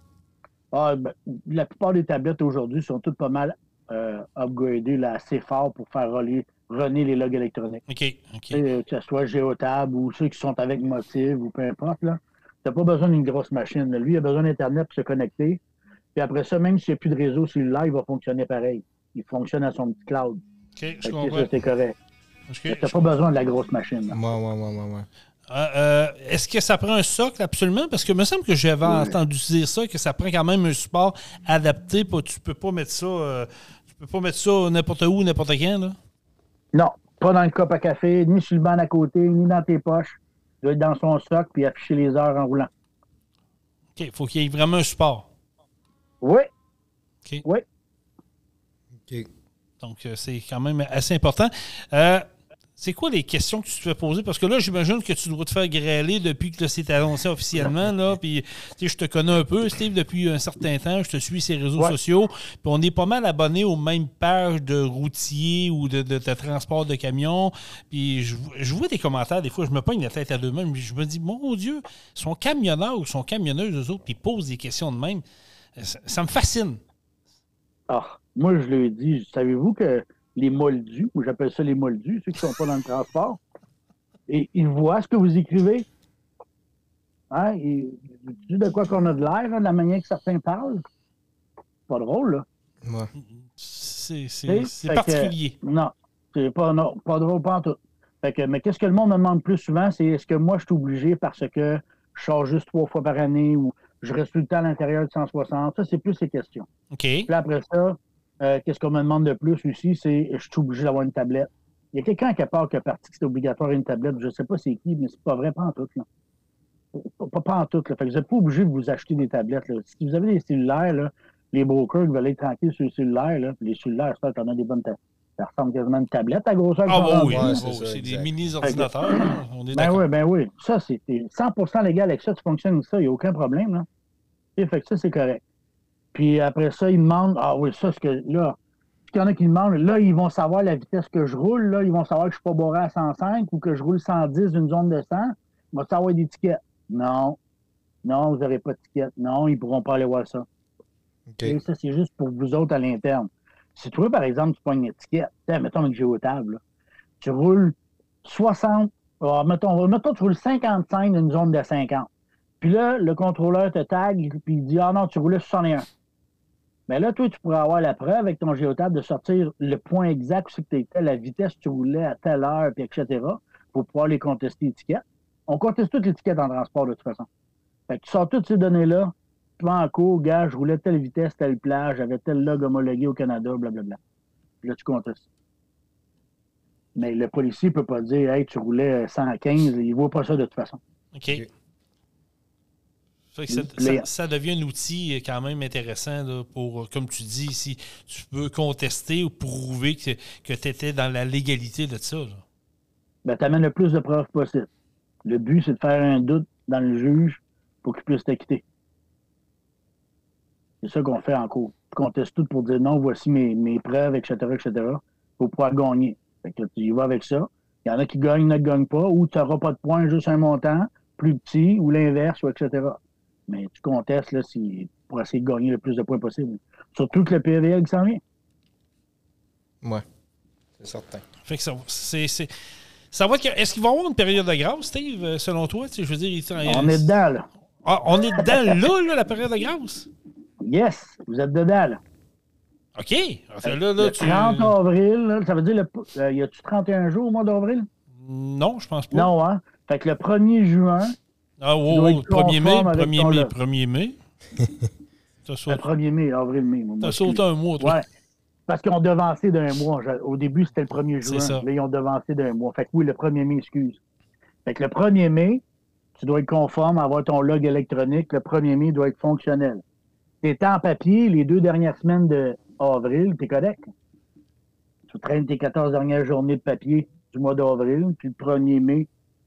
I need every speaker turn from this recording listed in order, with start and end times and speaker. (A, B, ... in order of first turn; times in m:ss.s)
0:00.7-0:07.8 A
0:07.9-0:08.6 B
0:08.5-0:15.6 A
0:16.2-0:20.4 A
0:20.8-0:21.5 B
0:21.0-0:22.0 A
0:22.5-0:23.1 B
0:22.7-0:24.2 A
0:24.1-0:25.1 C
0:25.5-0:36.0 B
0:28.8-0:29.2 A
0:36.7-0:42.7 A
0:44.0-0:45.3 B
0:46.2-0:46.5 A
0:49.8-0:52.3 B
0:52.8-1:15.2 B
1:15.8-1:16.8 B
1:17.9-1:23.4 A
1:24.3-1:25.9 A
1:27.3-1:30.8 A
1:31.9-1:32.4 A
1:32.8-1:33.1 C
1:33.4-1:35.6 B
1:34.5-1:46.7 A
1:46.9-1:47.3 B
1:47.3-1:56.1 A
1:56.9-2:07.6 A
2:06.9-2:10.0 B
2:07.3-2:08.3 C
2:08.6-2:13.9 A
2:14.6-2:15.4 A
2:16.1-2:18.6 A
2:19.1-2:27.4 A
2:28.0-2:30.4 A
2:31.3-2:31.6 C
2:31.4-2:36.6 A
2:37.2-2:42.1 A
2:42.6-2:45.9 A
2:46.9-2:57.3 A
2:57.9-3:04.0 A
3:04.6-3:05.3 A
3:07.0-3:10.8 A
3:11.1-3:11.4 B
3:13.3-3:22.4 B
3:13.5-3:14.1 A
3:23.2-3:24.7 A
3:25.2-3:28.6 A
3:30.8-3:48.2 A
3:50.8-3:51.2 C
3:51.4-3:52.5 B
3:53.1-3:57.2 B
3:56.7-3:57.5 A
3:57.8-4:00.1 B
3:58.4-3:58.8 A
4:00.6-4:02.0 A
4:03.0-4:04.8 B
4:03.6-4:07.9 A
4:08.2-4:09.3 B
4:09.1-4:11.2 A
4:11.6-4:14.2 B
4:11.9-4:13.5 A
4:15.4-4:15.8 B
4:15.7-4:18.0 A
4:17.0-4:18.0 B
4:18.7-4:24.0 A
4:21.2-4:21.6 B
4:24.7-4:25.6 A
4:26.2-4:29.8 A
4:30.4-4:33.9 A
4:35.1-4:39.1 A